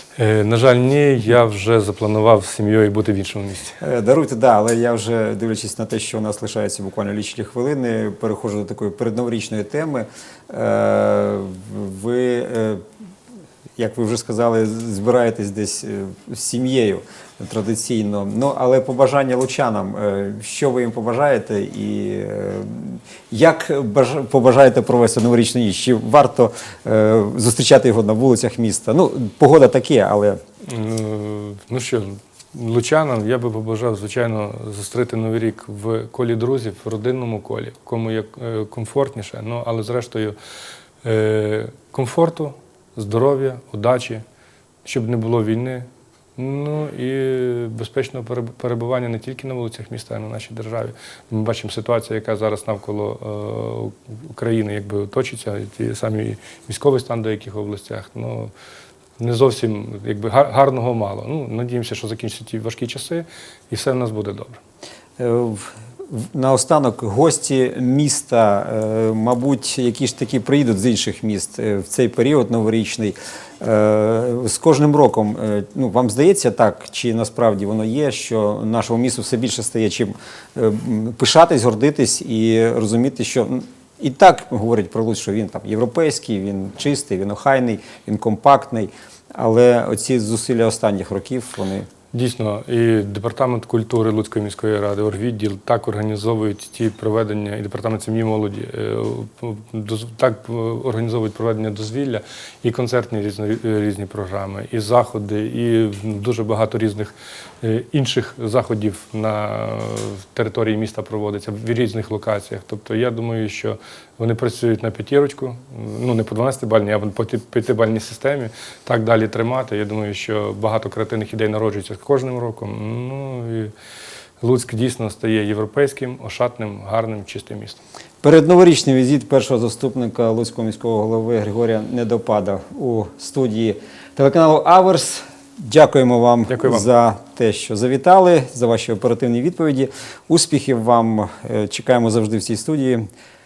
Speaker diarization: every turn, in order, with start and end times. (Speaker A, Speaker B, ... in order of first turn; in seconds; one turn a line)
Speaker A: 0.1-3.8
Speaker B: 3.8-12.8
Speaker B: 13.8-30.4
Speaker A: 30.6-40.4
Speaker A: 41.0-44.2
Speaker A: 44.8-58.5
Speaker A: 59.2-64.6
Speaker B: 65.2-91.9
Speaker A: 92.1-123.7
Speaker A: 124.4-127.8
Speaker B: 128.2-143.1
Speaker A: 136.5-136.8